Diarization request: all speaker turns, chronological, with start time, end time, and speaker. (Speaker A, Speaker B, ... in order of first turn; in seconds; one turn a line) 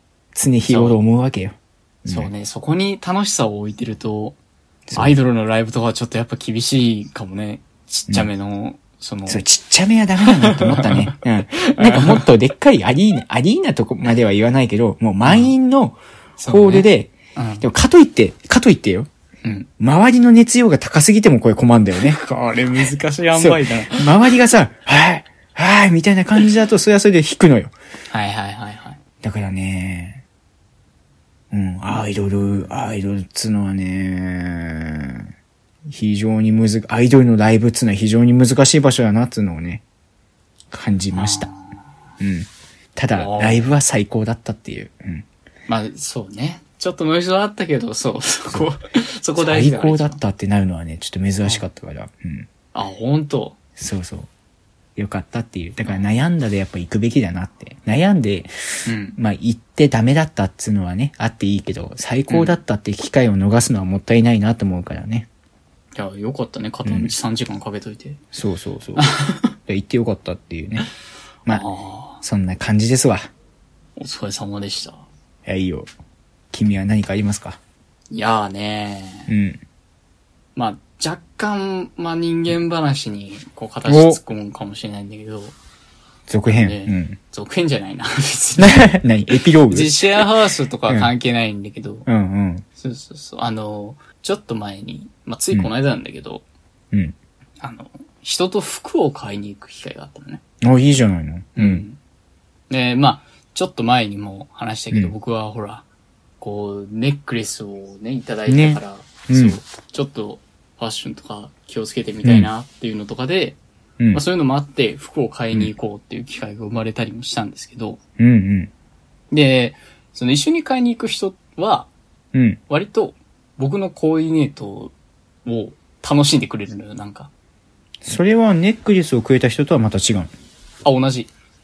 Speaker A: 0.3-2.3
Speaker B: 0.7-1.0
Speaker B: 2.1-4.4
Speaker A: 4.9-5.2
Speaker B: 4.9-9.4
Speaker A: 9.3-19.1
Speaker B: 10.2-12.3
Speaker B: 15.2-15.5
Speaker B: 16.4-17.6
Speaker A: 19.8-22.2
Speaker B: 22.0-24.1
Speaker A: 23.4-27.7
Speaker B: 28.1-29.0
Speaker A: 29.2-30.2
Speaker A: 31.5-35.3
Speaker A: 35.9-39.8
Speaker A: 40.7-41.5
Speaker B: 41.1-41.8
Speaker A: 42.2-45.2
Speaker B: 43.1-43.7
Speaker B: 45.7-50.2
Speaker A: 49.4-52.5
Speaker B: 52.7-53.6
Speaker A: 53.8-54.3
Speaker A: 55.0-65.3
Speaker B: 58.9-59.2
Speaker B: 62.3-62.5
Speaker B: 66.0-68.2
Speaker A: 66.8-67.1
Speaker A: 68.3-69.1
Speaker B: 69.0-69.5
Speaker A: 69.7-70.9
Speaker B: 71.5-72.2
Speaker A: 72.2-73.3
Speaker B: 74.0-75.0
Speaker A: 75.5-75.9
Speaker A: 76.5-77.6
Speaker B: 78.1-79.3
Speaker A: 79.3-79.6
Speaker B: 80.6-85.5
Speaker A: 83.9-84.2
Speaker A: 86.3-87.2
Speaker B: 86.5-89.0
Speaker A: 88.6-90.1
Speaker B: 89.7-92.1
Speaker A: 92.1-92.7
Speaker B: 92.8-96.4
Speaker B: 97.6-100.4
Speaker A: 100.6-101.8
Speaker B: 101.6-102.0
Speaker B: 102.7-105.8
Speaker B: 106.4-113.6
Speaker A: 108.5-109.6
Speaker A: 112.2-112.5
Speaker B: 114.1-118.0
Speaker A: 118.2-118.7
Speaker B: 119.3-121.9
Speaker A: 122.3-122.6
Speaker B: 122.7-124.9
Speaker B: 125.5-127.3
Speaker A: 128.0-130.3
Speaker B: 130.8-131.3